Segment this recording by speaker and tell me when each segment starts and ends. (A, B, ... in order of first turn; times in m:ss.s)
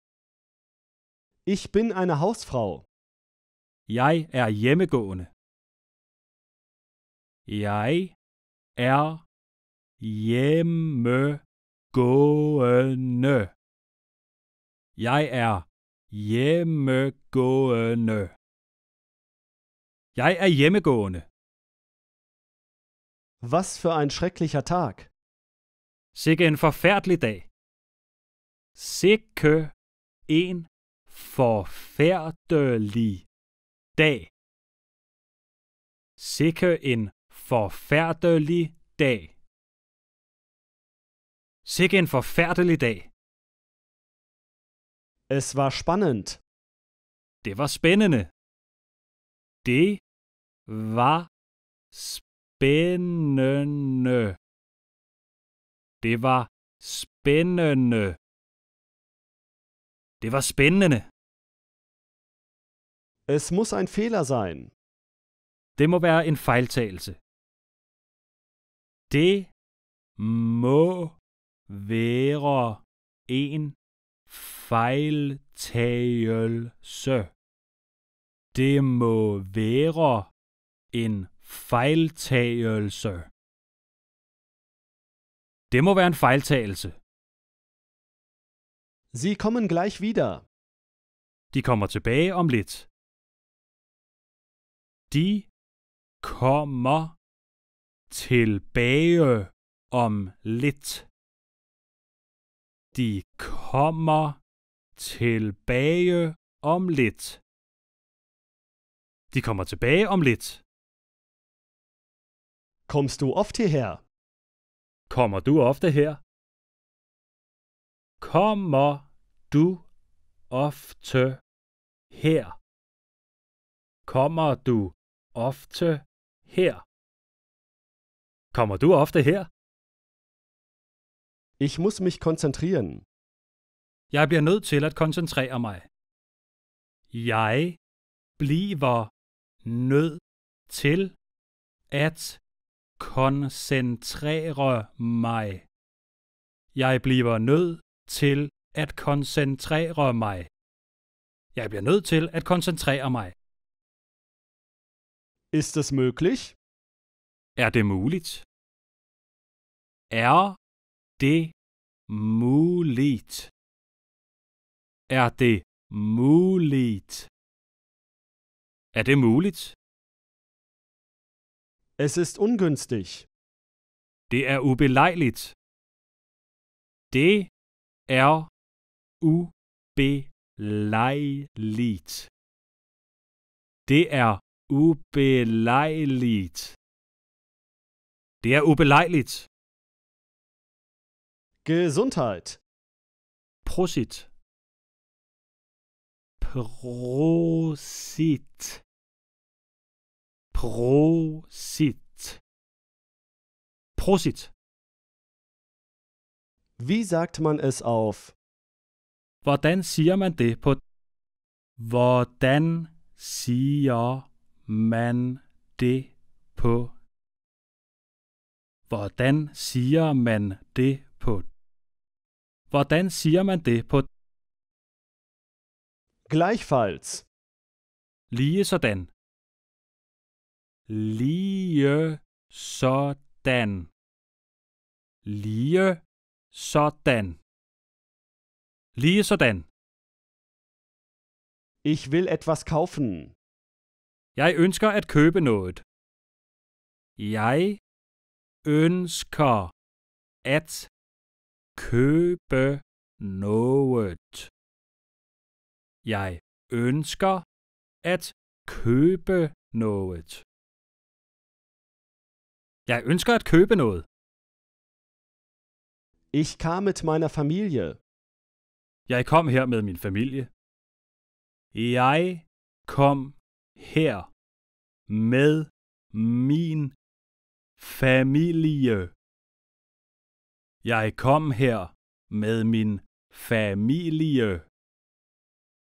0:01.4-0:02.9 A
0:03.9-0:05.3 B
0:07.5-0:08.2 B
0:08.8-0:09.2 B
0:10.0-0:13.5 B
0:15.0-0:18.3 B
0:20.1-0:21.3 B
0:23.4-0:25.1 A
0:26.1-0:27.5 B
0:28.8-0:29.7 B
0:30.3-0:33.3 B
0:34.0-0:34.3 B
0:36.2-0:39.3 B
0:41.6-0:43.1 B
0:45.3-0:46.4 A
0:47.4-0:48.3 B
0:49.6-0:50.0 B
0:50.7-0:51.3 B
0:51.9-0:54.4 B
0:56.0-0:58.2 B
1:00.2-1:01.1 B
1:03.3-1:04.7 A
1:05.8-1:07.2 B
1:09.1-1:09.5 B
1:10.2-1:11.2 B
1:11.7-1:13.8 B
1:14.3-1:17.3 B
1:18.5-1:20.3 B
1:20.9-1:23.3 B
1:25.7-1:27.0 B
1:29.1-1:30.4 A
1:31.5-1:32.9 B
1:35.1-1:35.5 B
1:36.2-1:37.2 B
1:38.1-1:41.1 B
1:42.9-1:44.4 B
1:45.0-1:47.4 B
1:49.3-1:50.6 B
1:52.9-1:54.0 A
1:55.1-1:56.2 B
1:58.2-1:59.9 B
2:00.5-2:01.4 B
2:02.1-2:02.6 B
2:04.1-2:06.8 B
2:08.5-2:09.5 B
2:11.6-2:13.0 A
2:14.1-2:15.9 B
2:17.1-2:17.8 B
2:18.4-2:19.1 B
2:19.6-2:21.2 B
2:21.9-2:22.4 B
2:23.0-2:25.7 B
2:26.8-2:30.5 B
2:31.6-2:33.3 B
2:35.5-2:36.6 A
2:37.6-2:38.4 B
2:40.1-2:40.6 B
2:41.2-2:41.5 B
2:42.1-2:43.5 B
2:45.1-2:47.3 B
2:48.9-2:49.8 B
2:52.0-2:53.3 A
2:54.3-2:55.6 B
2:57.1-2:57.5 B
2:58.1-2:58.5 B
2:59.2-3:02.3 B
3:03.9-3:06.8 B
3:08.4-3:09.5 B
3:11.6-3:12.6 A
3:13.6-3:14.3 B
3:16.4-3:18.8 B
3:20.5-3:22.4 B
3:24.0-3:24.5 B
3:26.8-3:28.4 A
3:29.4-3:30.8 B
3:31.8-3:36.9 B
3:38.9-3:41.5 B
3:42.7-3:44.1 B
3:46.3-3:47.2 A
3:48.3-3:49.1 B
3:50.9-3:53.9 B
3:55.2-3:57.4 B
3:59.0-3:59.7 B
4:01.8-4:03.3 A
4:04.4-4:05.8 B
4:07.2-4:07.8 B
4:08.6-4:09.7 B
4:10.4-4:10.9 B
4:11.8-4:14.5 B
4:16.0-4:17.4 B
4:18.0-4:20.4 B
4:22.9-4:24.1 B
4:26.3-4:28.0 A
4:29.1-4:30.5 B
4:31.7-4:34.3 B
4:35.1-4:37.0 B
4:37.8-4:39.1 B
4:40.8-4:44.7 B